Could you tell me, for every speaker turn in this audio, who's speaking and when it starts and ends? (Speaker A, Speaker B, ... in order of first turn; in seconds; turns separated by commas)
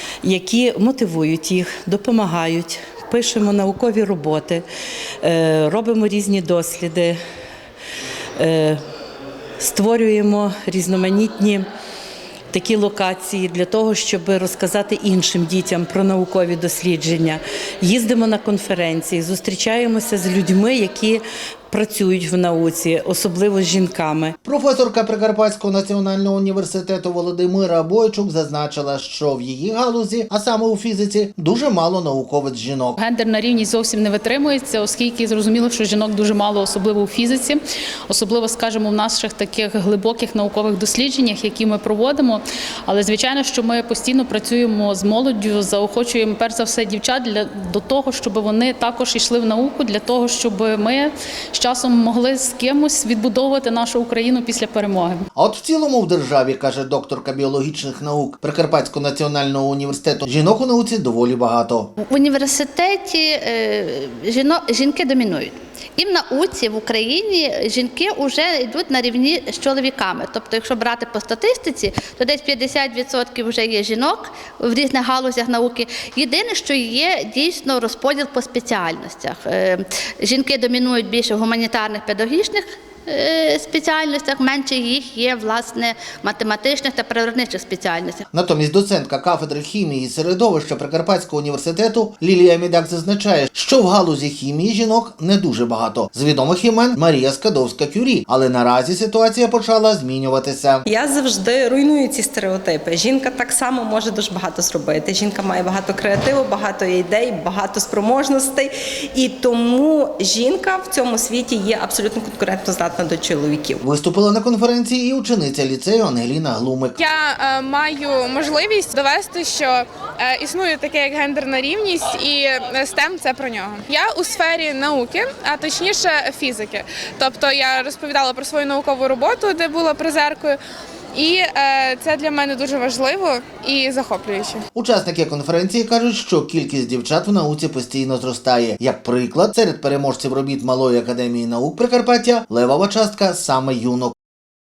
Speaker A: 0.2-4.6, Speaker A: 5.2-7.2, Speaker A: 8.4-8.8, Speaker A: 9.6-11.6, Speaker A: 12.5-24.3, Speaker B: 24.4-33.0, Speaker C: 33.0-55.2, Speaker B: 55.3-61.9, Speaker D: 62.0-88.2, Speaker B: 88.3-100.8, Speaker E: 100.8-113.8, Speaker B: 113.8-117.0, Speaker F: 117.0-130.6, Speaker F: 131.1-134.6, Speaker B: 134.7-144.1